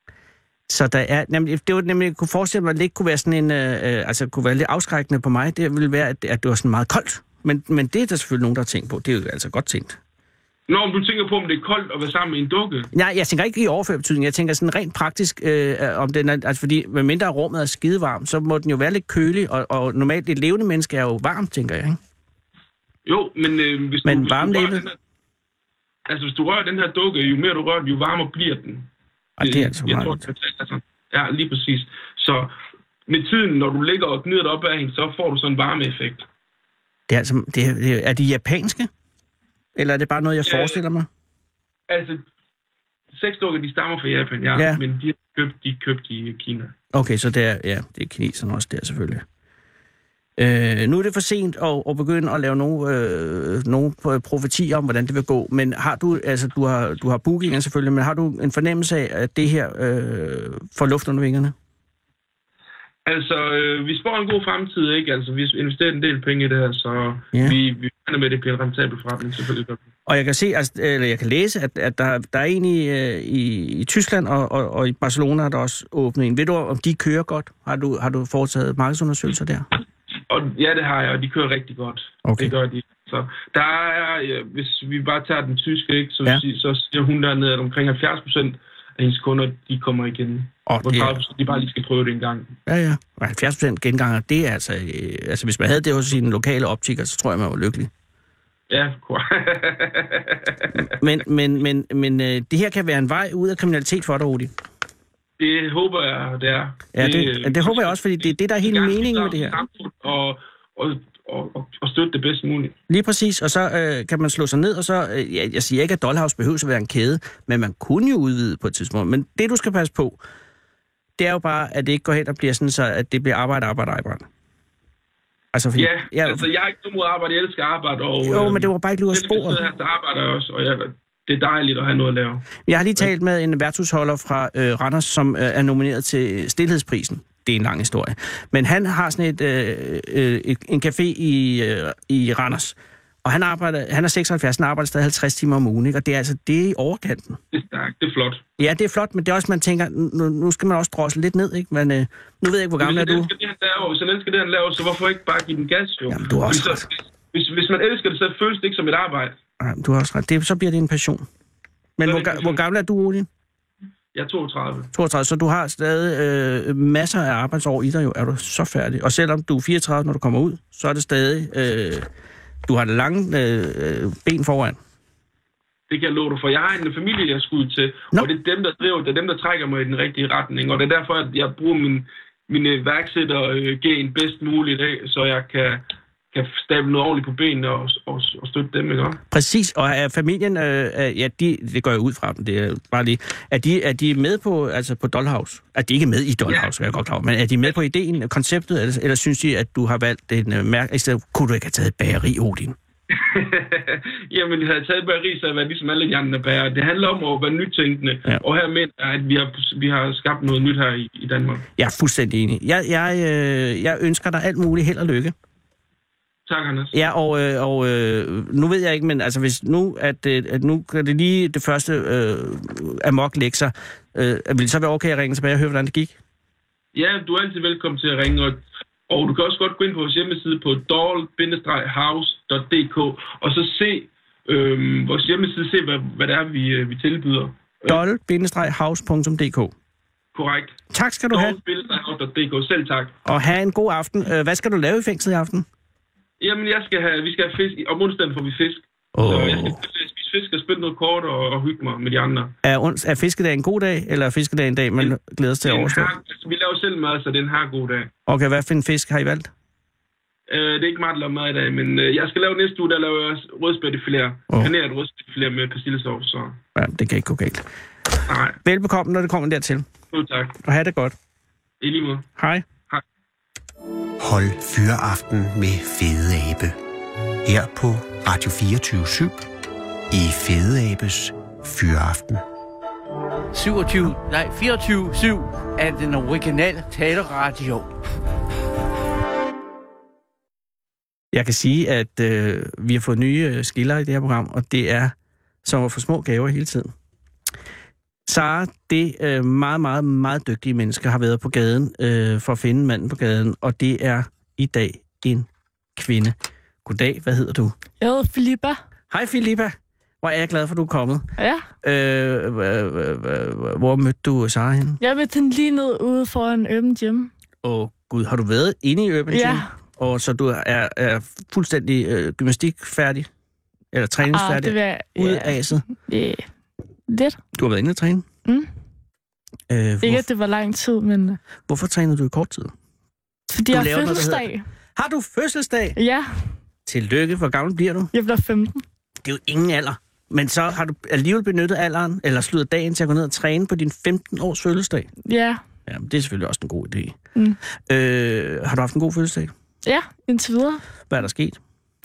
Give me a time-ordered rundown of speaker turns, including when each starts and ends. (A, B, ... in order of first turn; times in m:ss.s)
0:00.7-0:10.0 A
0:10.7-0:12.9 B
0:12.9-0:22.0 A
0:23.0-0:24.9 B
0:24.0-0:24.9 A
0:26.1-0:28.9 B
0:29.4-0:30.2 A
0:29.4-0:32.5 B
0:33.1-0:36.2 B
0:37.1-0:38.9 A
0:39.7-0:41.1 A
0:40.4-0:40.8 B
0:41.9-0:42.2 B
0:43.1-0:46.7 B
0:44.5-0:44.8 A
0:46.9-0:49.2 A
0:50.4-1:01.5 A
1:03.0-1:09.8 B
1:10.0-1:19.7 A
1:20.3-1:32.5 B
1:22.2-1:22.5 A
1:30.7-1:31.2 A
1:32.7-1:37.9 A
1:38.7-1:40.9 B
1:41.0-1:44.5 A
1:45.4-1:52.8 B
1:46.9-1:49.6 A
1:52.9-2:00.2 A
2:01.2-2:04.2 A
2:05.5-2:06.5 A
2:05.8-2:12.4 B
2:08.2-2:09.6 A
2:12.6-2:27.4 A
2:27.5-2:28.4 B
2:28.6-2:33.3 A
2:32.8-2:39.4 B
2:36.1-2:36.8 A
2:39.6-2:41.2 A
2:42.0-2:43.3 A
2:42.0-2:42.6 B
2:44.1-2:44.9 B
2:44.9-2:52.1 A
2:52.6-2:54.8 A
2:55.9-3:09.2 B
3:09.3-3:22.8 A
3:23.1-3:31.7 B
3:31.8-3:35.3 A
3:36.4-3:36.9 B
3:36.9-3:46.2 A
3:46.9-3:58.0 B
3:57.9-3:59.7 A
4:00.3-4:00.8 B
4:00.9-4:01.6 A
4:01.3-4:03.1 B
4:03.2-4:05.6 A
4:06.4-4:12.5 B
4:09.1-4:09.8 A
4:12.6-4:16.1 A
4:15.0-4:18.1 B
4:18.3-4:19.5 A
4:20.5-4:26.6 B
4:26.7-4:27.6 A
4:28.3-4:28.6 B
4:28.6-4:29.9 A
4:30.1-4:30.6 B
4:30.6-4:31.1 A
4:31.8-4:32.3 B
4:32.4-4:32.6 A
4:34.2-4:36.8 C
4:37.4-4:39.4 C
4:40.1-4:42.4 C
4:43.5-4:47.9 D
4:51.3-4:55.1 A
4:55.6-4:56.9 A
4:58.3-5:07.7 A
5:08.0-5:08.8 E
5:09.1-5:11.2 A
5:11.4-5:11.6 E
5:11.8-5:15.0 A
5:15.0-5:17.3 E
5:17.6-5:23.3 A
5:19.3-5:19.7 E
5:23.9-5:25.8 A
5:24.3-5:26.5 E
5:27.1-5:27.4 E
5:27.6-5:28.2 A
5:29.7-5:30.2 A
5:30.0-5:31.4 E
5:31.7-5:32.7 A
5:33.5-5:34.6 E
5:33.7-5:36.0 A
5:35.9-5:36.5 E
5:36.8-5:38.1 A
5:38.1-5:38.8 E
5:39.2-5:45.1 A
5:45.2-5:45.6 E
5:45.9-5:47.2 A
5:47.9-5:49.5 A
5:49.8-5:50.8 E
5:51.1-5:51.6 A